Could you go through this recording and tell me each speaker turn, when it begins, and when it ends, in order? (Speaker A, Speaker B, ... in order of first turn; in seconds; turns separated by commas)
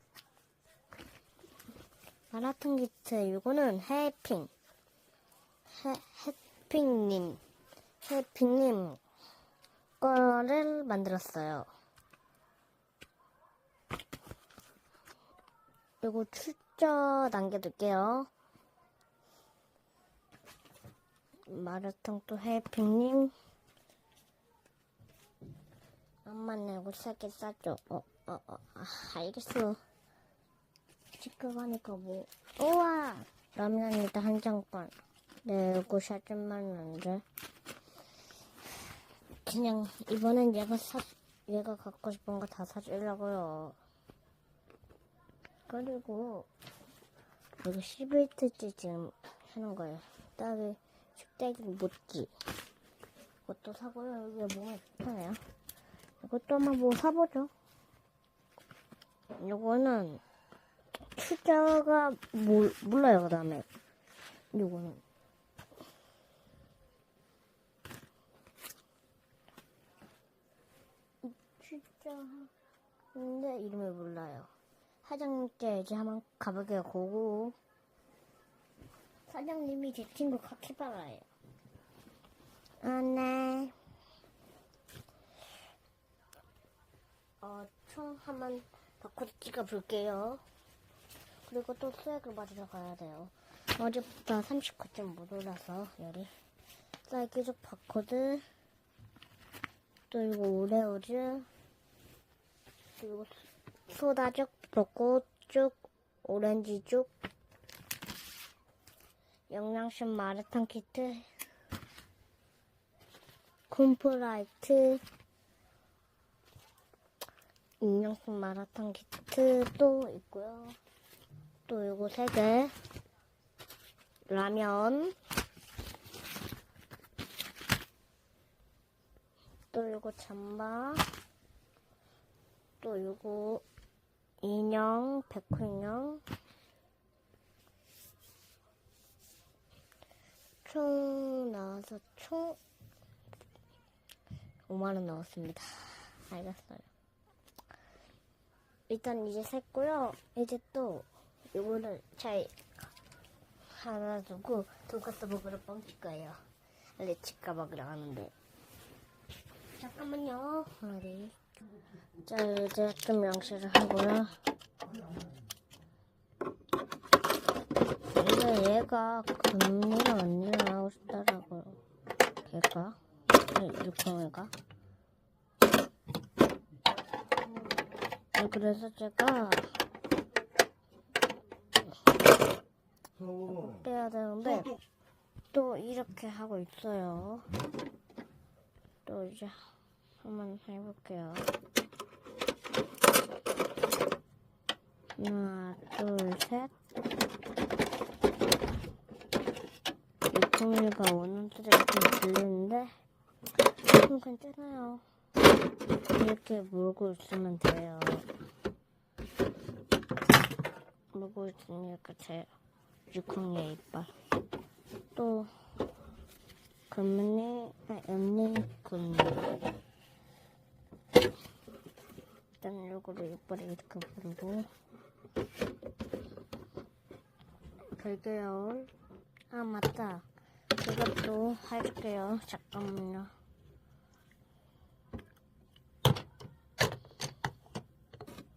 Speaker A: 2.3-4.5, Speaker A: 5.7-7.4, Speaker A: 8.0-9.0, Speaker A: 10.0-11.7, Speaker A: 16.0-18.3, Speaker A: 21.5-23.3, Speaker A: 26.2-29.8, Speaker A: 31.2-37.2, Speaker A: 39.4-43.8, Speaker A: 45.7-46.5, Speaker A: 47.6-52.3, Speaker A: 53.5-55.4, Speaker A: 56.2-57.5, Speaker A: 59.4-60.2, Speaker A: 61.1-63.6, Speaker A: 64.5-65.0, Speaker A: 71.2-72.5, Speaker A: 73.1-74.5, Speaker A: 75.0-77.5, Speaker A: 79.3-81.3, Speaker A: 82.8-83.7, Speaker A: 87.4-90.4, Speaker A: 91.5-96.3, Speaker A: 97.0-98.4, Speaker A: 100.1-101.5, Speaker A: 103.0-107.1, Speaker A: 109.5-111.3, Speaker A: 113.7-115.0, Speaker A: 117.8-120.8, Speaker A: 121.7-122.7, Speaker A: 124.3-125.1, Speaker A: 129.7-131.1, Speaker A: 132.8-133.6, Speaker A: 134.4-136.2, Speaker A: 140.6-142.6, Speaker A: 144.7-146.9, Speaker A: 148.9-152.5, Speaker A: 153.7-156.4, Speaker A: 157.0-158.3, Speaker A: 159.8-161.4, Speaker A: 162.2-164.4, Speaker A: 168.0-171.8, Speaker A: 172.4-174.5, Speaker A: 178.3-179.8, Speaker A: 183.5-184.8, Speaker A: 185.5-187.5, Speaker A: 189.1-189.6, Speaker A: 190.2-191.5, Speaker A: 195.2-196.7, Speaker A: 200.3-202.9, Speaker A: 203.9-205.0, Speaker A: 206.1-208.3, Speaker A: 211.1-212.5, Speaker A: 213.1-214.1, Speaker A: 215.1-215.5, Speaker A: 216.9-219.6, Speaker A: 222.6-224.7, Speaker A: 227.9-228.9, Speaker A: 229.5-230.2, Speaker A: 230.8-233.3